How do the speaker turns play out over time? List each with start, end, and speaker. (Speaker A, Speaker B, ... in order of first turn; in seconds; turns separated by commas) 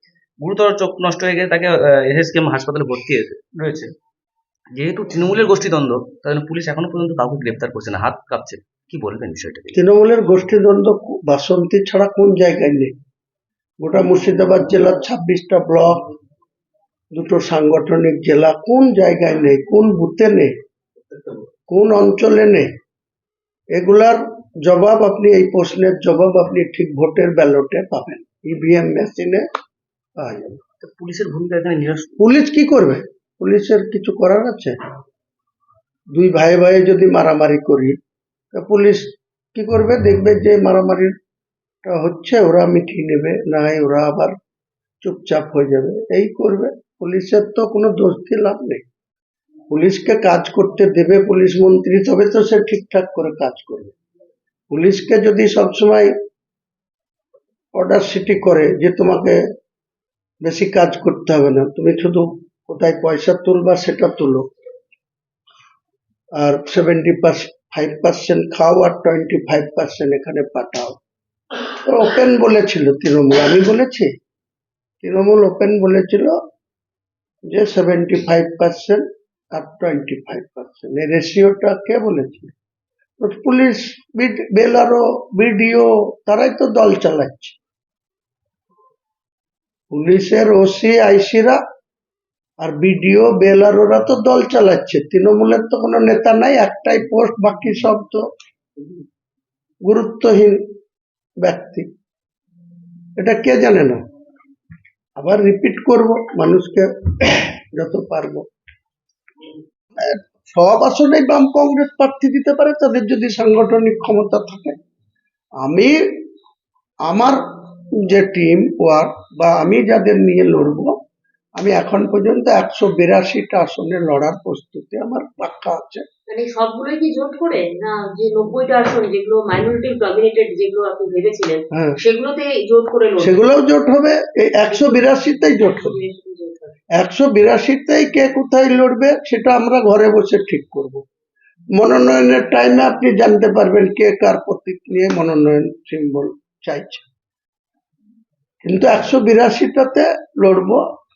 Speaker A: 0.4-3.9, Speaker A: 4.7-9.8, Speaker B: 9.7-12.9, Speaker B: 13.8-16.1, Speaker B: 17.1-20.5, Speaker B: 21.7-22.7, Speaker B: 23.7-29.4, Speaker B: 30.2-30.6, Speaker A: 30.8-32.1, Speaker B: 32.2-34.8, Speaker B: 36.1-38.0, Speaker B: 38.5-41.1, Speaker B: 41.8-44.3, Speaker B: 45.0-48.8, Speaker B: 49.7-53.9, Speaker B: 54.7-56.1, Speaker B: 57.7-59.4, Speaker B: 60.4-64.5, Speaker B: 66.4-71.0, Speaker B: 71.8-74.1, Speaker B: 75.0-76.4, Speaker B: 77.5-82.5, Speaker B: 83.2-87.6, Speaker B: 89.9-91.6, Speaker B: 92.6-98.2, Speaker B: 99.8-100.6, Speaker B: 101.4-101.9, Speaker B: 103.2-104.0, Speaker B: 105.2-108.5, Speaker B: 110.0-114.8, Speaker B: 115.6-116.0, Speaker B: 117.0-117.4, Speaker B: 118.0-120.9, Speaker B: 121.6-126.0, Speaker C: 126.3-133.4, Speaker B: 131.7-132.0, Speaker B: 133.2-136.0, Speaker C: 134.7-136.8, Speaker B: 136.9-141.0, Speaker B: 141.7-147.1, Speaker B: 148.6-150.8